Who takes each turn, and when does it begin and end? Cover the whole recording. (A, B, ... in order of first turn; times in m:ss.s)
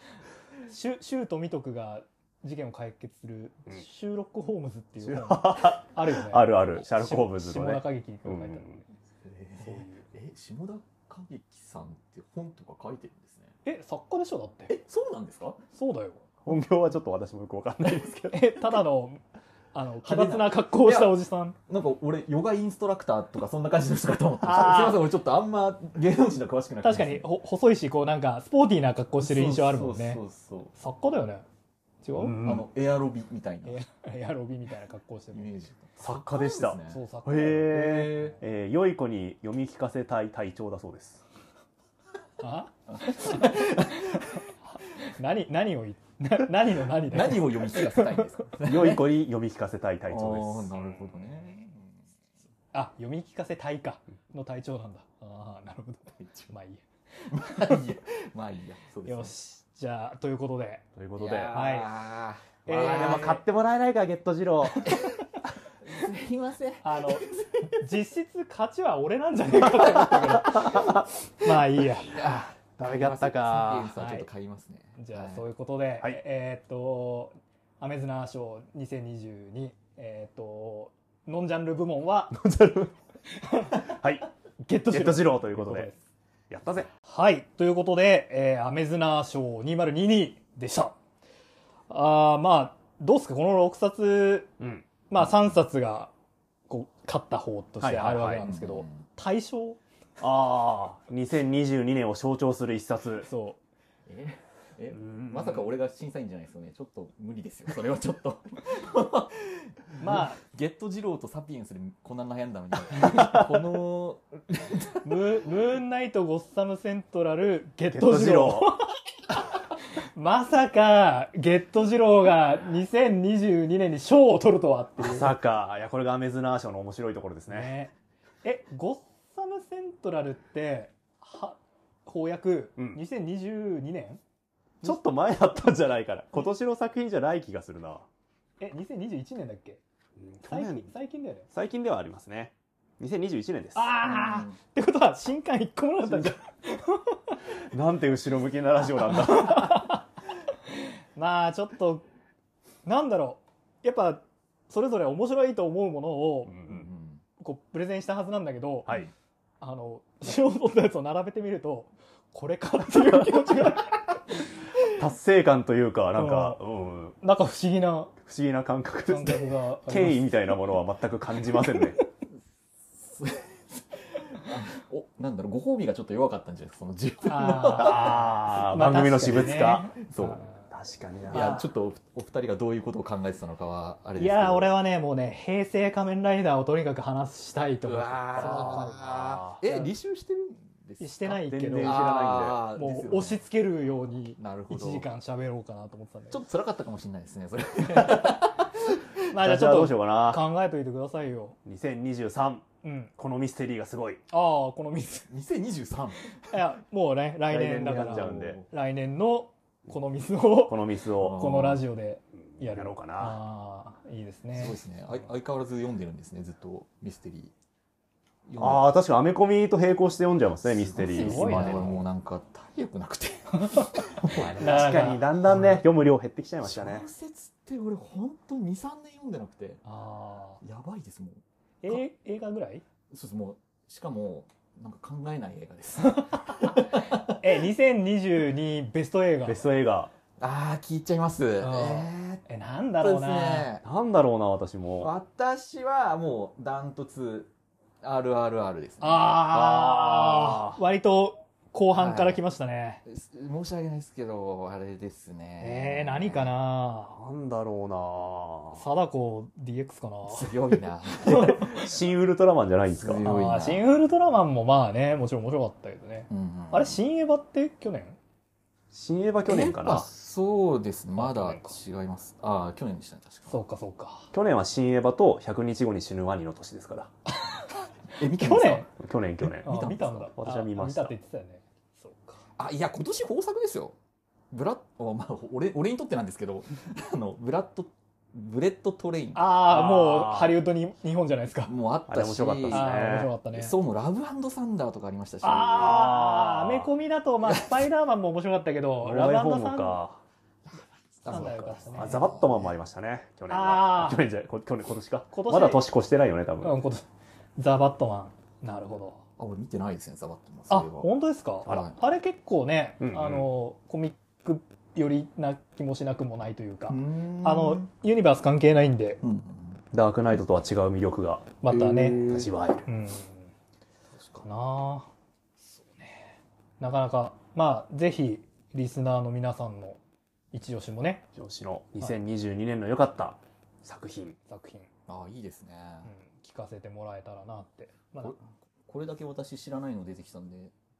0:00.7-0:08.8 A
0:05.0-0:08.8 B
0:09.2-0:13.5 C
0:09.6-0:10.1 A
0:13.6-0:14.8 A
0:14.7-0:15.6 C
0:15.7-0:16.2 A
0:16.4-0:18.5 B
0:18.3-0:19.2 A
0:19.7-0:21.6 A
0:20.0-0:21.1 C
0:21.7-0:27.2 C
0:24.4-0:25.0 A
0:26.8-0:30.2 A
0:29.2-0:30.7 C
0:30.8-0:31.4 A
0:32.0-0:32.4 A
0:32.2-0:32.6 B
0:32.4-0:33.8 C
0:33.6-0:35.5 A
0:35.3-0:37.0 C
0:36.0-0:41.2 B
0:36.9-0:37.8 A
0:37.7-0:38.4 C
0:42.4-0:43.7 A
0:42.9-0:44.4 C
0:44.7-0:48.4 A
0:47.0-0:49.1 C
0:48.6-0:50.8 B
0:50.1-0:52.1 C
0:52.7-0:56.8 A
0:56.2-0:56.5 C
0:57.3-0:59.3 C
0:57.4-0:57.7 A
0:59.0-1:00.8 A
1:01.0-1:01.5 B
1:01.2-1:03.4 C
1:01.5-1:01.9 A
1:02.6-1:03.4 A
1:02.7-1:04.9 B
1:04.8-1:05.3 C
1:05.8-1:07.7 C
1:06.8-1:12.1 A
1:10.6-1:11.0 B
1:12.1-1:15.4 C
1:12.2-1:13.9 B
1:14.0-1:14.3 A
1:15.0-1:22.4 A
1:22.3-1:22.9 B
1:23.4-1:23.9 A
1:23.7-1:24.3 B
1:24.6-1:26.0 A
1:24.9-1:25.9 B
1:26.5-1:26.9 B
1:27.0-1:30.9 A
1:31.9-1:34.5 A
1:34.6-1:34.8 B
1:35.1-1:36.1 A
1:36.7-1:39.8 A
1:37.8-1:38.4 B
1:38.3-1:39.0 C
1:40.2-1:43.3 B
1:43.2-1:43.6 A
1:44.1-1:55.4 C
1:44.9-1:45.7 B
1:50.0-1:50.4 A
1:53.1-1:53.4 B
1:55.0-1:58.8 A
1:57.9-1:58.7 B
2:00.1-2:05.3 A
2:05.0-2:07.7 B
2:07.5-2:14.2 A
2:14.8-2:18.0 B
2:18.6-2:19.8 A
2:20.2-2:20.9 B
2:20.4-2:21.5 A
2:21.5-2:23.9 B
2:23.7-2:27.4 A
2:24.0-2:24.6 C
2:26.0-2:26.4 B
2:27.7-2:30.0 B
2:29.1-2:30.0 A
2:31.2-2:32.0 A
2:32.8-2:36.8 A
2:36.5-2:36.9 B
2:36.7-2:37.2 C
2:37.4-2:38.9 A
2:39.6-2:44.2 A
2:44.8-2:47.2 B
2:46.1-2:46.6 A
2:47.2-2:48.2 A
2:48.2-2:52.0 B
2:49.1-2:50.3 A
2:52.9-2:58.6 C
2:57.2-3:00.6 A
2:57.8-3:00.1 B
2:59.2-3:00.4 C
3:00.7-3:01.6 B
3:01.2-3:04.7 C
3:01.3-3:01.6 A
3:04.2-3:09.0 A
3:07.8-3:11.2 C
3:08.4-3:09.6 B
3:09.6-3:09.9 A
3:11.0-3:12.0 A
3:11.2-3:12.6 B
3:11.8-3:13.4 C
3:12.7-3:16.4 A
3:14.4-3:15.1 C
3:16.3-3:19.0 C
3:18.0-3:18.4 B
3:19.3-3:21.6 A
3:19.3-3:20.4 B
3:21.6-3:22.6 B
3:22.8-3:23.1 A
3:23.2-3:24.2 B
3:24.3-3:25.3 A
3:25.3-3:26.5 C
3:26.5-3:34.8 A
3:27.5-3:28.6 B
3:28.0-3:28.7 C
3:30.7-3:31.5 B
3:31.2-3:31.8 C
3:32.6-3:33.4 B
3:34.5-3:37.5 C
3:38.4-3:38.9 C
3:38.6-3:42.0 B
3:40.8-3:45.8 C
3:40.9-3:41.8 A
3:43.6-3:44.0 A
3:44.2-3:47.1 B
3:44.6-3:45.8 A
3:46.6-3:49.8 C
3:49.8-3:50.6 A
3:50.6-3:51.4 C
3:51.8-3:52.8 A
3:53.1-3:57.4 C
3:57.4-3:59.6 A
3:59.4-4:00.1 B
4:00.4-4:02.4 C
4:01.6-4:03.7 A
4:03.0-4:03.8 C
4:03.8-4:05.1 B
4:05.0-4:07.5 C
4:08.0-4:09.4 C
4:09.0-4:13.0 A
4:09.5-4:10.8 B
4:11.9-4:12.4 C
4:13.0-4:16.5 C
4:15.6-4:17.1 A
4:17.1-4:18.8 B
4:18.7-4:20.6 A
4:20.2-4:21.6 C
4:21.2-4:21.9 A
4:21.3-4:23.2 B
4:22.9-4:23.8 C
4:23.2-4:28.2 A
4:26.3-4:27.0 C
4:28.9-4:30.1 B
4:29.4-4:33.6 C
4:31.2-4:31.7 A
4:33.5-4:34.3 A
4:34.3-4:37.1 B
4:37.3-4:38.9 A
4:38.1-4:38.9 C
4:39.0-4:41.1 B
4:39.6-4:42.4 A
4:39.7-4:40.2 C
4:42.6-4:44.0 C
4:44.5-4:49.5 C
4:49.3-4:51.7 A
4:49.7-4:50.5 B
4:51.7-4:56.1 C
4:52.1-4:53.3 B
4:52.7-4:53.7 A
4:55.4-5:00.0 A
4:55.8-4:56.9 B
4:59.0-5:00.2 B
5:00.7-5:02.7 C
5:01.3-5:02.3 A
5:01.9-5:06.8 B
5:03.5-5:04.2 A
5:05.3-5:05.8 A
5:06.6-5:07.1 A
5:07.6-5:09.2 A
5:09.4-5:11.1 C
5:10.7-5:19.2 A
5:11.6-5:12.0 C
5:13.0-5:13.5 B
5:16.9-5:17.9 C
5:19.2-5:19.8 C
5:19.9-5:22.8 B
5:21.6-5:23.5 A
5:24.4-5:25.1 A
5:26.8-5:30.0 A
5:30.5-5:31.2 A
5:31.4-5:34.4 B
5:34.5-5:34.9 A
5:35.1-5:36.1 C
5:36.0-5:38.4 A
5:38.8-5:40.7 C